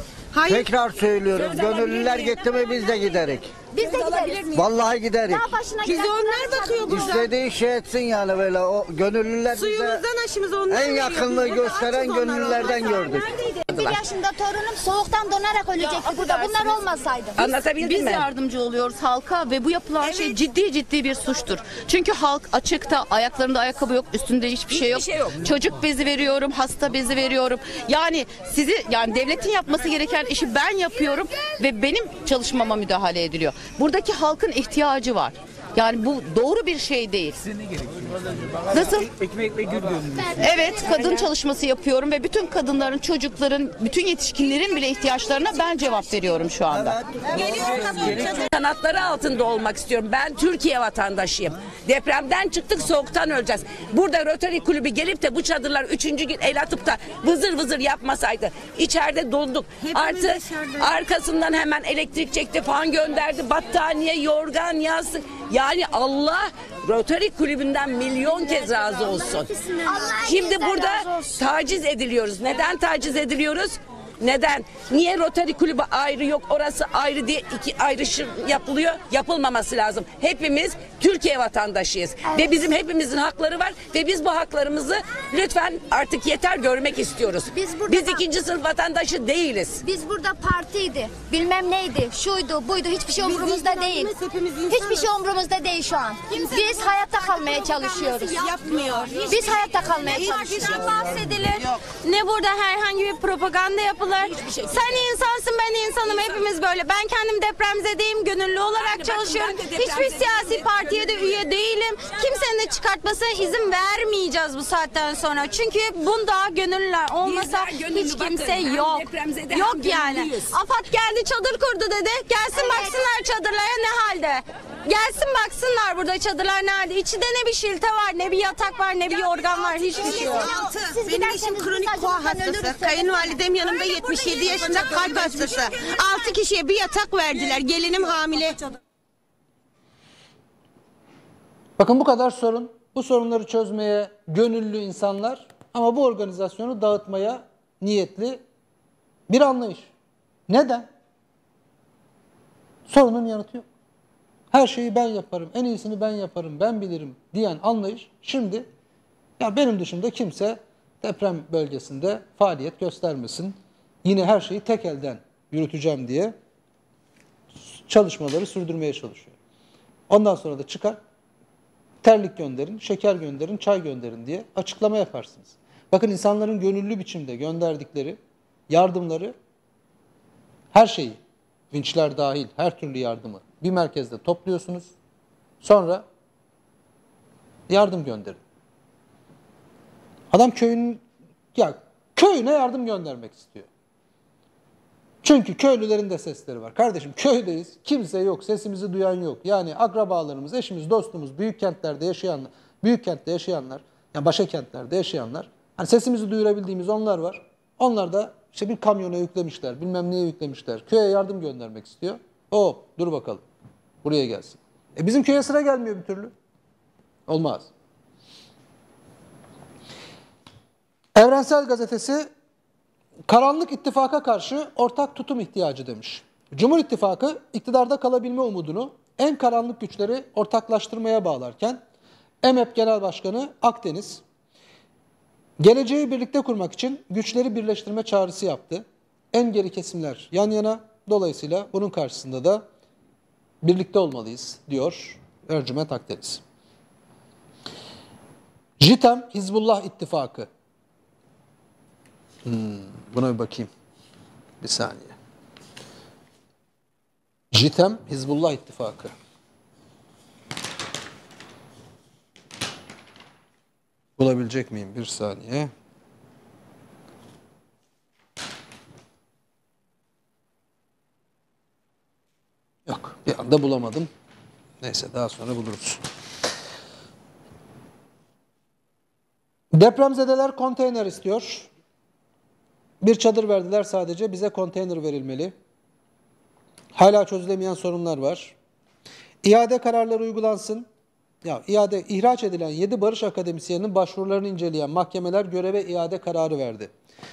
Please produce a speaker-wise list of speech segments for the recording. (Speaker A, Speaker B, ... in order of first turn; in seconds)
Speaker A: 0.3-0.7, 1.8-2.1, 5.8-7.3, 9.5-13.2, 47.4-47.9, 59.9-60.9, 93.2-95.1, 96.3-96.6, 97.7-101.0, 129.9-138.6
Speaker B: 0.5-3.5, 4.5-5.5, 6.9-10.0, 10.7-14.0
Speaker C: 3.7-4.6, 5.2-7.2, 13.7-17.5, 69.8-70.9, 87.5-88.2, 89.8-94.2, 94.7-98.5, 99.3-100.9, 130.0-133.4
Speaker D: 17.4-18.3, 24.7-25.3, 47.7-69.5, 70.2-89.8, 108.8-110.6, 117.2-120.5
Speaker E: 17.7-37.4, 38.7-39.1, 40.4-47.0
Speaker F: 100.9-130.1
Speaker G: 141.8-148.4, 149.3-149.9, 150.5-150.9, 152.9-153.7, 154.5-158.7, 159.4-166.3, 167.7-169.3, 170.1-171.0, 172.0-178.2, 178.7-179.3, 180.7-181.2, 181.7-184.9, 185.6-186.1, 187.7-188.4, 190.3-191.0, 191.6-193.7, 195.2-213.4, 214.0-216.3, 217.3-217.7, 221.2-222.3, 223.3-231.8, 232.4-234.2, 235.6-242.6, 243.6-246.4, 248.8-250.5, 252.4-253.7, 254.6-255.2, 257.5-259.1, 264.2-265.7, 272.9-274.1, 274.8-276.0, 279.7-281.7, 283.0-285.5, 286.9-288.6, 289.4-290.9, 291.4-296.9